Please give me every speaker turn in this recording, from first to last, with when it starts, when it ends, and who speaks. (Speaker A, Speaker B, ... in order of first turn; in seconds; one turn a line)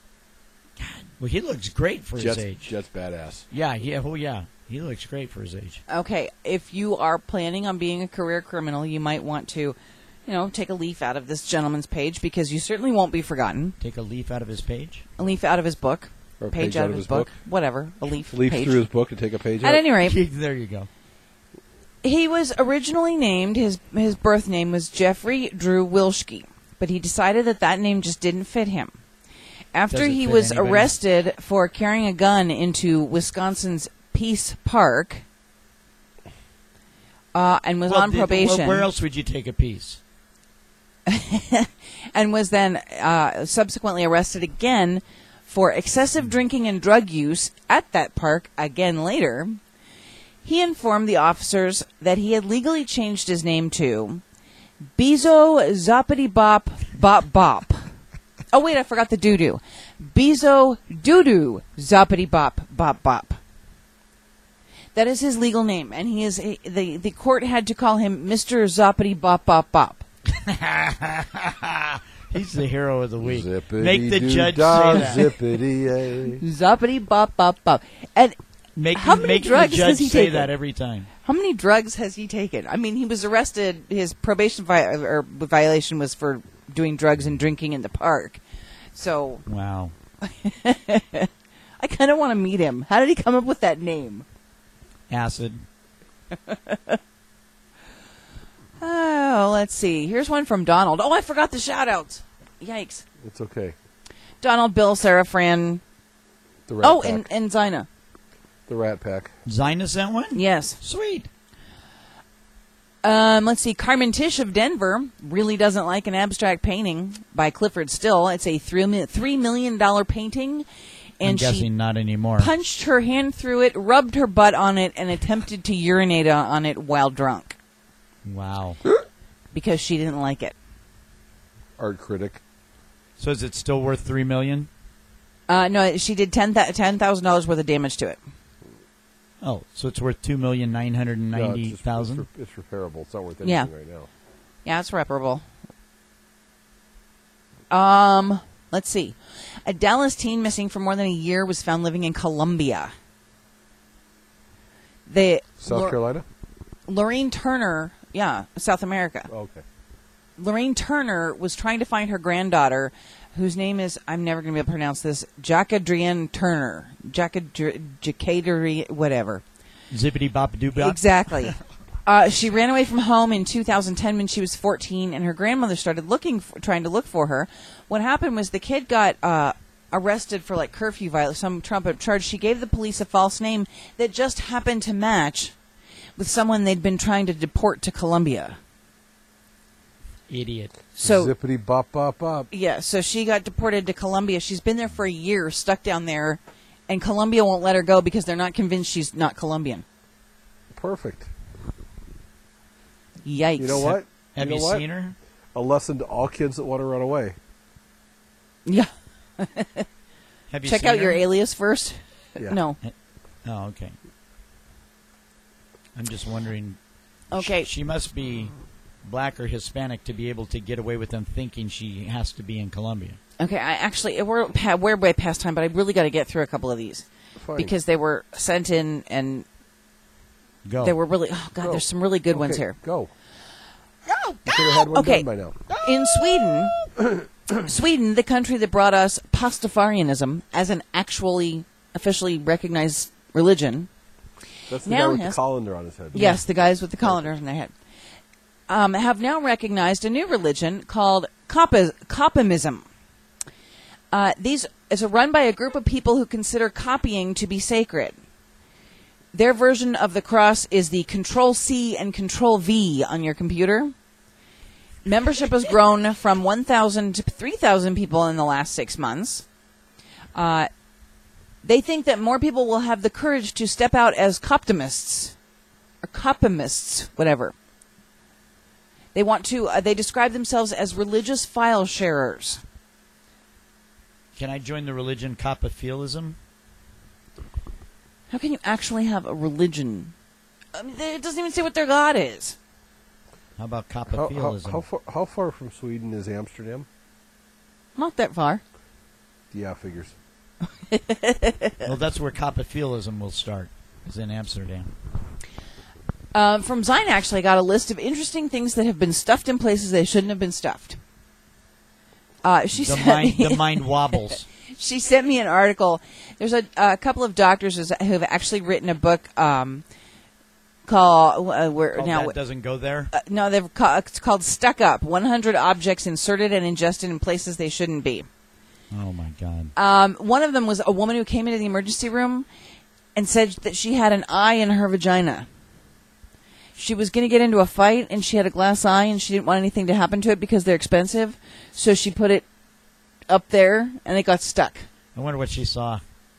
Speaker A: 0.8-2.7
Speaker B: 2.2-3.4
Speaker A: 3.5-5.8
Speaker C: 5.9-13.8
Speaker A: 13.8-15.1
Speaker C: 15.2-18.8
Speaker B: 16.4-17.3
Speaker B: 18.3-19.9
Speaker C: 19.6-20.2
Speaker A: 20.0-20.9
Speaker C: 22.0-28.9
Speaker C: 29.7-35.2
Speaker A: 29.9-30.9
Speaker C: 37.3-38.9
Speaker A: 37.9-40.0
Speaker C: 41.1-49.6
Speaker C: 50.4-54.2
Speaker C: 55.0-57.8
Speaker C: 58.5-63.4
Speaker C: 64.9-70.0
Speaker A: 70.3-75.3
Speaker B: 73.2-76.4
Speaker C: 76.4-78.3
Speaker A: 78.8-81.1
Speaker C: 78.9-80.5
Speaker C: 81.2-88.4
Speaker C: 88.9-89.4
Speaker A: 89.5-89.9
Speaker C: 90.2-91.3
Speaker C: 91.8-94.2
Speaker A: 95.1-95.6
Speaker C: 96.3-97.0
Speaker C: 98.8-103.0
Speaker B: 103.2-103.8
Speaker C: 104.4-105.8
Speaker B: 106.7-107.3
Speaker C: 106.8-107.9
Speaker B: 108.7-109.3
Speaker A: 109.5-111.3
Speaker C: 110.3-110.8
Speaker C: 113.0-120.7
Speaker C: 121.2-121.7
Speaker A: 121.2-122.5
Speaker C: 122.4-127.5
Speaker A: 128.2-128.8
Speaker C: 129.5-130.5
Speaker B: 131.8-132.4
Speaker A: 133.2-134.7
Speaker C: 135.5-138.2
Speaker A: 139.4-142.2
Speaker B: 141.3-144.1
Speaker C: 143.4-143.7
Speaker C: 144.6-145.4
Speaker C: 147.7-152.9
Speaker C: 155.1-156.0
Speaker B: 155.6-156.2
Speaker C: 156.9-159.3
Speaker B: 159.3-159.6
Speaker C: 160.4-169.4
Speaker A: 169.9-171.5
Speaker C: 170.8-171.5
Speaker C: 172.1-185.5
Speaker C: 186.2-188.6
Speaker A: 190.3-190.8
Speaker C: 190.9-191.3
Speaker B: 191.0-192.5
Speaker C: 192.5-199.8
Speaker B: 200.7-201.3
Speaker C: 203.2-203.9
Speaker B: 203.6-204.8
Speaker A: 203.8-205.2
Speaker B: 205.5-207.3
Speaker C: 208.7-209.8
Speaker A: 210.5-211.2
Speaker C: 210.6-212.8
Speaker A: 212.8-213.9
Speaker A: 215.9-216.8
Speaker C: 217.3-217.7
Speaker A: 217.4-218.5
Speaker A: 219.0-223.2
Speaker C: 223.4-229.4
Speaker B: 227.4-227.7
Speaker A: 230.6-231.0
Speaker C: 230.8-232.8
Speaker B: 231.6-233.1
Speaker C: 234.1-235.2
Speaker B: 234.4-235.6
Speaker C: 235.8-236.8
Speaker B: 237.0-237.6
Speaker C: 237.6-243.9
Speaker B: 244.7-246.4
Speaker C: 244.8-245.4
Speaker C: 246.1-247.7
Speaker A: 246.1-246.4
Speaker B: 247.0-247.4
Speaker C: 248.7-252.8
Speaker C: 254.1-258.2
Speaker C: 259.3-263.9
Speaker C: 265.0-269.4
Speaker C: 270.3-270.7
Speaker C: 271.6-275.3
Speaker C: 276.0-277.5
Speaker C: 279.1-282.6
Speaker A: 284.4-286.4
Speaker C: 288.3-290.1
Speaker C: 290.7-292.6
Speaker A: 293.6-294.8
Speaker B: 294.1-296.9
Speaker C: 297.9-298.6
Speaker B: 299.5-300.1
Speaker C: 300.9-301.8
Speaker A: 301.8-304.9
Speaker C: 306.3-311.0
Speaker C: 312.4-313.9
Speaker A: 312.8-314.4
Speaker C: 314.6-319.8
Speaker C: 320.9-322.3
Speaker A: 321.9-323.1
Speaker C: 323.1-328.2
Speaker A: 328.9-329.7
Speaker C: 329.8-332.4
Speaker C: 333.1-335.5
Speaker C: 336.8-342.4
Speaker C: 343.3-344.9
Speaker A: 345.1-346.0